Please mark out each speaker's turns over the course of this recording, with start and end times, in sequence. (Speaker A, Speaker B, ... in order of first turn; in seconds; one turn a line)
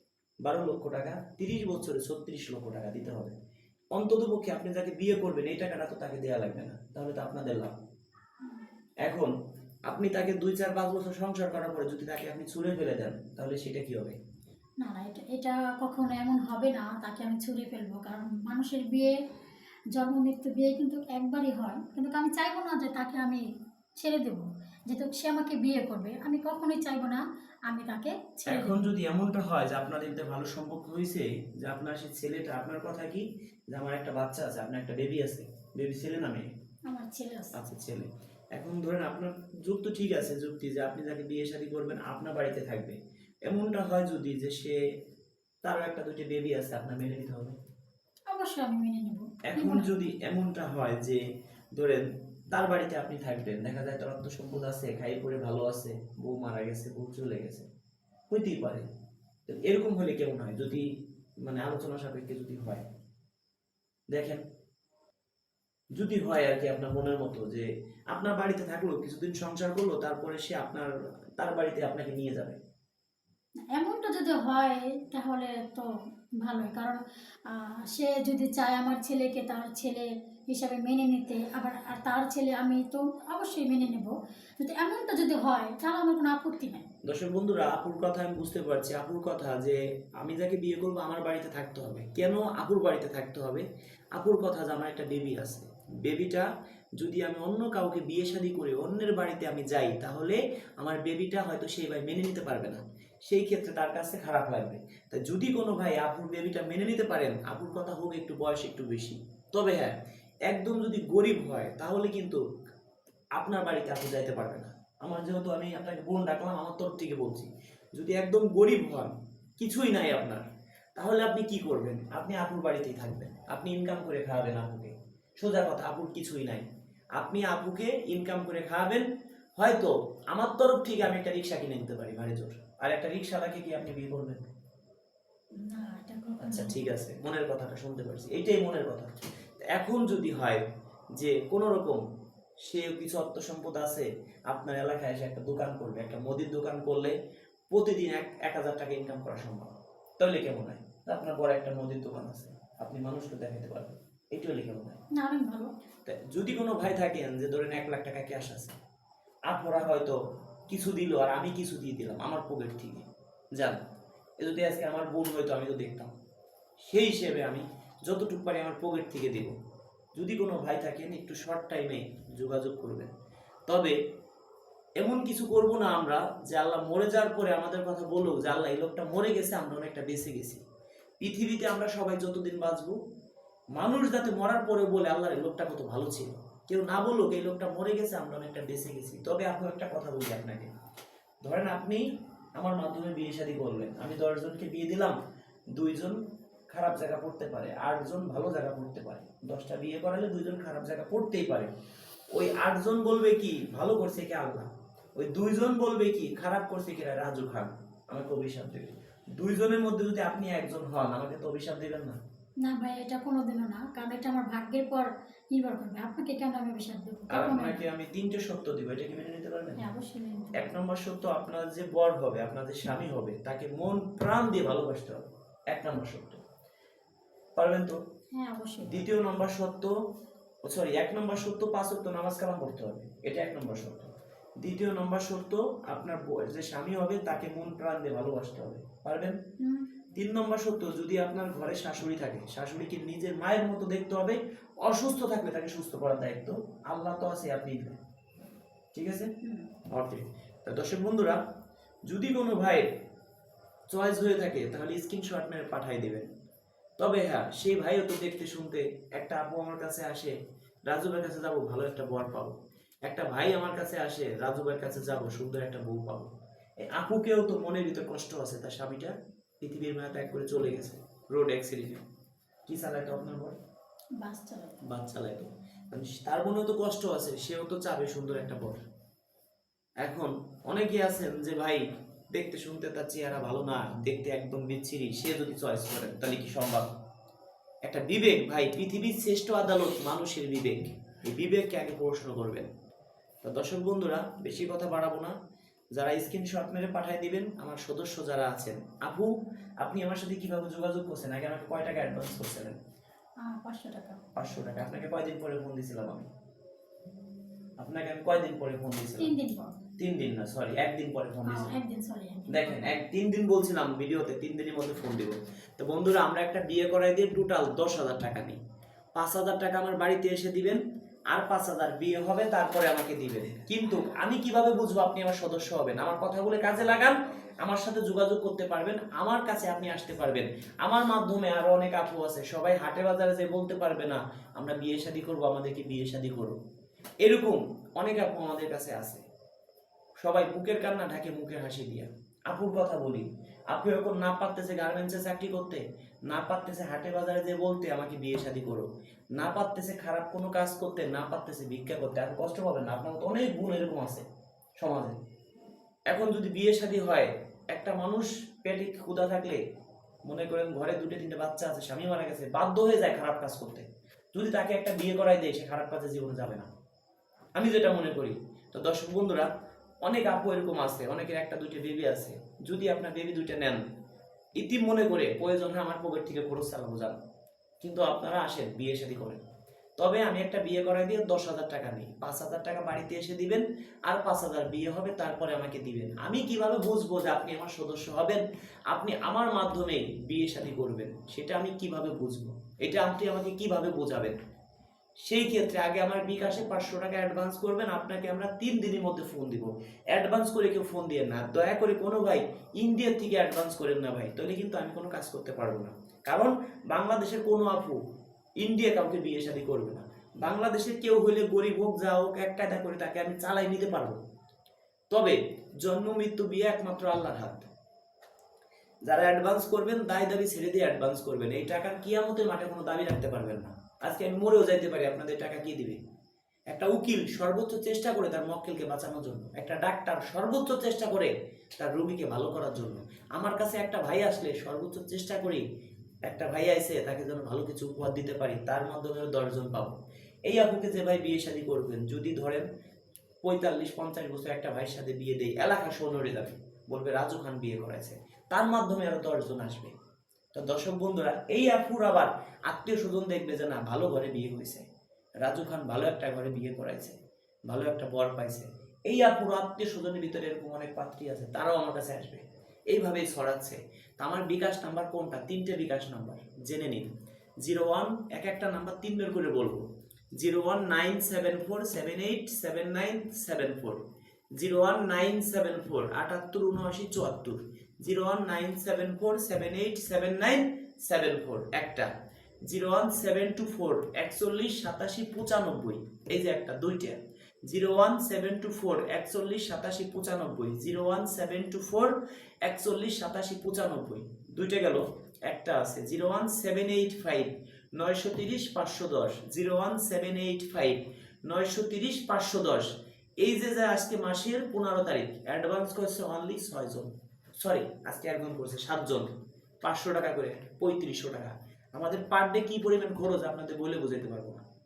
Speaker A: 0.4-3.3
Speaker A: 3.9-7.7
Speaker A: 9.0-9.3
Speaker A: 9.9-14.2
Speaker B: 14.8-19.1
Speaker B: 19.9-23.4
Speaker B: 24.0-28.8
Speaker A: 28.5-36.5
Speaker B: 36.9-37.6
Speaker A: 37.5-44.8
Speaker A: 45.6-47.5
Speaker B: 48.3-49.9
Speaker A: 49.5-51.2
Speaker A: 51.8-57.7
Speaker A: 58.3-58.8
Speaker A: 59.5-60.8
Speaker A: 61.4-62.8
Speaker A: 64.1-64.4
Speaker A: 66.0-72.6
Speaker B: 73.7-75.9
Speaker B: 76.4-86.9
Speaker A: 87.0-93.6
Speaker A: 94.2-96.5
Speaker A: 97.0-110.0
Speaker A: 110.5-112.4
Speaker A: 113.4-126.7
Speaker A: 127.2-129.1
Speaker A: 129.6-134.4
Speaker B: 135.6-136.8
Speaker A: 136.4-139.1
Speaker A: 139.7-140.6
Speaker A: 141.2-142.0
Speaker A: 142.6-147.1
Speaker A: 147.7-155.0
Speaker B: 155.1-155.7
Speaker A: 156.0-158.8
Speaker A: 159.5-163.8
Speaker A: 164.4-166.1
Speaker A: 166.8-169.5
Speaker A: 170.1-173.1
Speaker A: 173.7-173.9
Speaker A: 175.0-180.6
Speaker A: 181.2-183.0
Speaker A: 183.8-190.7
Speaker A: 191.4-192.0
Speaker A: 192.6-195.2
Speaker A: 195.8-196.2
Speaker A: 196.7-201.7
Speaker A: 202.3-212.2
Speaker B: 212.6-217.8
Speaker A: 217.3-219.8
Speaker B: 219.8-220.7
Speaker A: 220.5-226.4
Speaker A: 227.6-228.0
Speaker B: 228.3-229.0
Speaker A: 228.8-229.9
Speaker A: 230.6-239.4
Speaker B: 239.6-239.9
Speaker A: 240.1-248.0
Speaker A: 248.9-249.3
Speaker B: 249.4-249.7
Speaker A: 249.9-251.4
Speaker A: 252.1-252.9
Speaker A: 253.9-256.3
Speaker A: 257.0-260.3
Speaker A: 260.9-262.5
Speaker A: 263.1-266.3
Speaker A: 266.8-272.0
Speaker A: 272.7-273.6
Speaker B: 274.2-274.8
Speaker A: 274.9-278.8
Speaker A: 280.0-286.9
Speaker A: 287.9-292.7
Speaker A: 293.4-295.4
Speaker A: 295.9-299.3
Speaker A: 299.8-302.8
Speaker B: 303.4-304.2
Speaker A: 304.4-306.3
Speaker A: 307.8-309.3
Speaker B: 309.2-309.9
Speaker A: 310.0-311.7
Speaker B: 311.4-313.0
Speaker A: 312.5-318.6
Speaker A: 319.1-320.8
Speaker A: 321.3-336.6
Speaker A: 337.2-339.2
Speaker A: 340.2-354.2
Speaker A: 354.8-355.2
Speaker A: 356.1-359.6
Speaker A: 360.2-366.7
Speaker A: 367.6-369.5
Speaker A: 370.0-373.8
Speaker A: 374.6-377.2
Speaker A: 377.8-379.4
Speaker A: 380.0-394.4
Speaker A: 395.2-408.0
Speaker A: 408.6-414.2
Speaker A: 415.1-417.7
Speaker A: 419.1-426.0
Speaker A: 426.7-435.6
Speaker A: 436.2-439.9
Speaker A: 440.5-442.6
Speaker A: 443.4-449.9
Speaker A: 450.5-454.8
Speaker A: 455.4-457.2
Speaker A: 457.7-467.1
Speaker A: 467.6-469.8
Speaker A: 470.4-474.0
Speaker A: 474.6-482.1
Speaker A: 482.7-492.1
Speaker A: 492.6-509.3
Speaker A: 509.8-514.6